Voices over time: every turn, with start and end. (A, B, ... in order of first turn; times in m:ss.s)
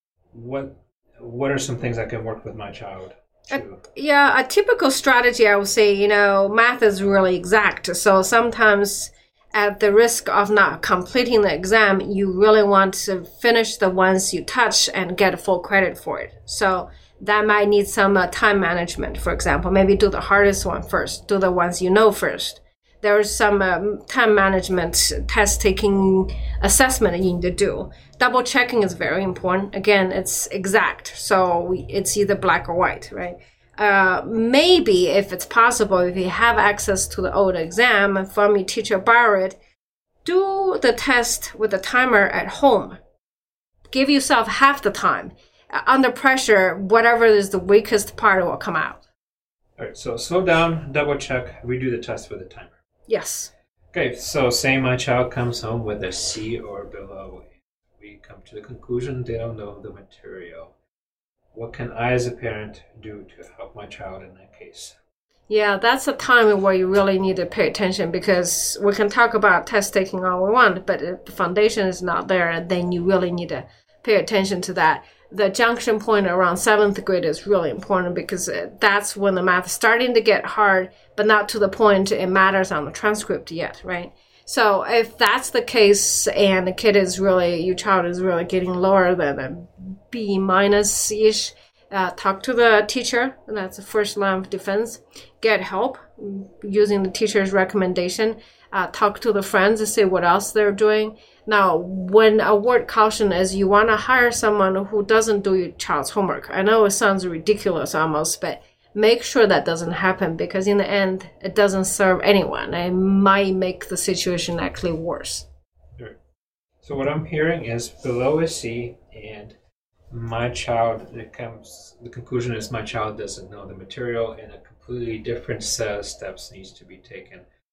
0:00.3-0:03.8 A
0:03.5-0:39.6 B
0:40.2-0:43.0 B
0:43.9-0:49.0 B
0:49.8-0:52.7 A
0:53.1-0:53.5 B
0:53.9-1:00.8 A
1:01.5-1:05.0 A
1:05.5-1:55.5 B
1:56.8-1:59.6 A
2:00.1-2:07.5 A